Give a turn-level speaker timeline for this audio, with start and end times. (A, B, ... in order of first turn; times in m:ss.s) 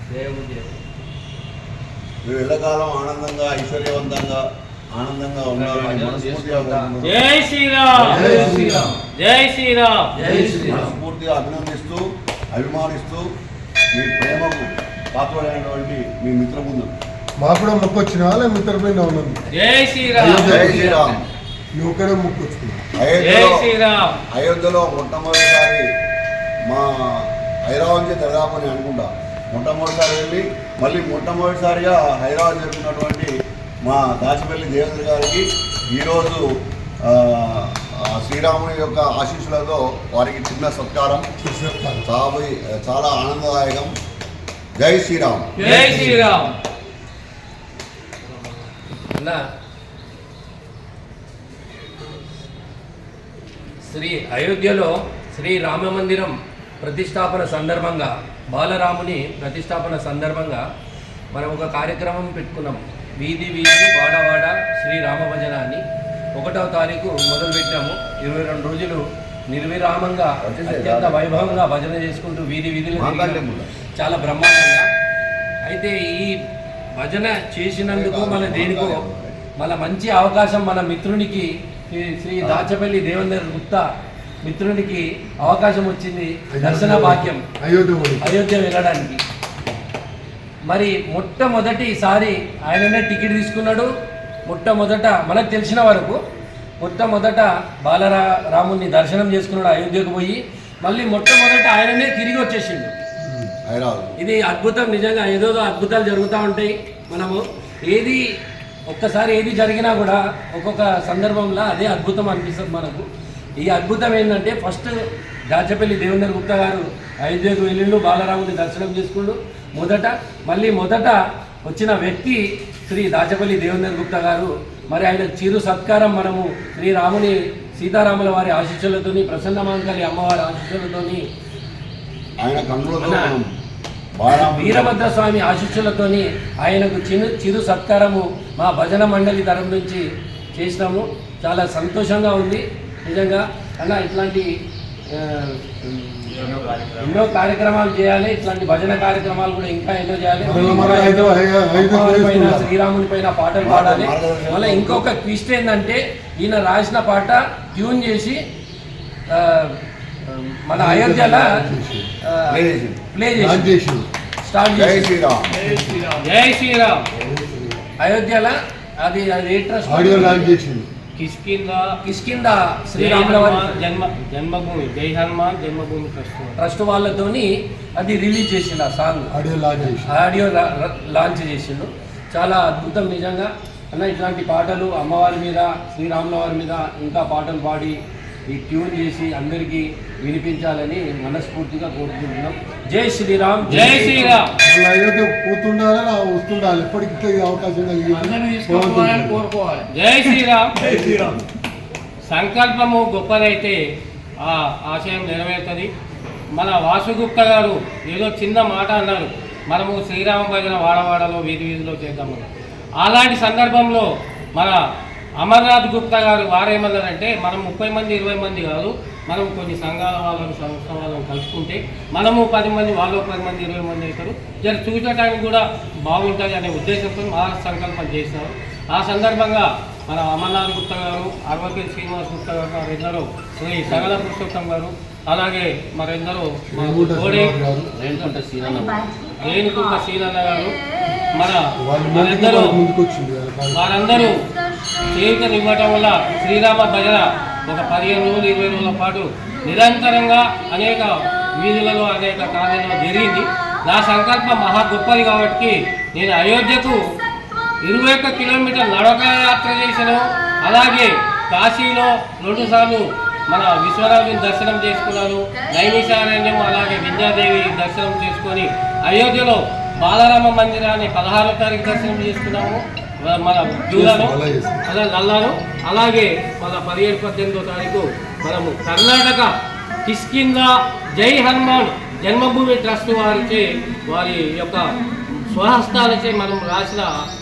0:00.1-0:00.8 A
0:02.2-0:04.4 B
0:04.9-0:07.2 B
0:05.5-0:07.0 A
0:07.0-0:08.6 C
0:08.0-0:08.9 D
0:08.1-0:09.0 A
0:09.1-0:10.1 C
0:10.2-0:11.0 A
0:10.2-0:10.7 D
0:10.4-0:13.3 B
0:13.9-0:16.9 B
0:17.4-0:19.4 D
0:19.5-0:20.8 C
0:20.2-0:21.0 D
0:20.4-0:21.3 B
0:20.7-0:21.1 A
0:21.7-0:22.9 D
0:23.0-0:23.7 B
0:23.2-0:24.2 C
0:24.3-0:25.8 B
0:26.7-0:33.3 B
0:33.8-0:36.4 B
0:37.0-0:41.3 B
0:41.4-0:42.1 D
0:42.0-0:43.9 B
0:44.8-0:46.2 B
0:45.6-0:46.5 A
0:45.6-0:46.5 E
0:45.6-0:46.2 D
0:53.8-1:00.6 A
1:01.3-1:05.8 A
1:06.4-1:14.9 A
1:10.4-1:11.4 B
1:13.0-1:13.7 B
1:15.6-1:16.4 A
1:17.0-1:19.0 A
1:17.9-1:19.4 B
1:19.6-1:23.8 A
1:22.4-1:22.7 B
1:24.4-1:27.4 A
1:26.5-1:28.4 D
1:28.2-1:29.2 A
1:30.7-1:33.9 A
1:34.5-1:36.2 A
1:36.8-1:42.9 A
1:43.2-1:43.5 D
1:43.6-1:44.2 B
1:44.2-1:48.2 A
1:48.9-1:53.0 A
1:53.6-1:55.0 A
1:55.5-2:11.2 A
2:12.4-2:13.5 B
2:13.0-2:13.3 A
2:14.2-2:14.9 B
2:14.3-2:20.0 A
2:20.6-2:24.5 A
2:25.1-2:38.4 A
2:26.4-2:26.8 E
2:30.4-2:32.7 D
2:33.6-2:35.1 B
2:39.3-2:41.6 A
2:40.7-2:42.1 D
2:42.3-2:42.6 A
2:42.5-2:43.0 B
2:43.1-2:43.7 A
2:43.4-2:44.1 D
2:44.4-2:45.1 A
2:44.8-2:45.6 B
2:45.6-2:46.1 D
2:45.7-2:46.2 E
2:46.2-2:47.1 C
2:47.1-2:47.8 D
2:48.0-2:50.6 A
2:49.8-2:50.9 D
2:51.2-2:51.9 C
2:52.0-2:53.8 A
2:53.0-2:56.6 C
2:56.6-2:59.3 A
2:59.3-3:00.1 D
3:00.0-3:08.0 A
3:08.5-3:14.4 A
3:13.7-3:19.5 D
3:13.7-3:14.5 C
3:18.2-3:19.8 E
3:19.9-3:20.9 C
3:20.9-3:21.3 D
3:20.9-3:21.3 E
3:22.3-3:23.8 C
3:24.4-3:25.9 C
3:26.5-3:32.5 C
3:33.0-3:34.8 C
3:35.4-3:57.6 C
3:53.9-3:54.2 A
3:56.7-3:57.9 D
3:57.9-3:59.1 A
3:59.4-4:00.8 C
4:01.3-4:02.8 C
4:01.8-4:03.8 D
4:03.7-4:04.4 C
4:05.1-4:17.0 C
4:17.8-4:39.6 C
4:33.9-4:34.8 D
4:40.1-4:44.9 C
4:45.4-4:47.1 C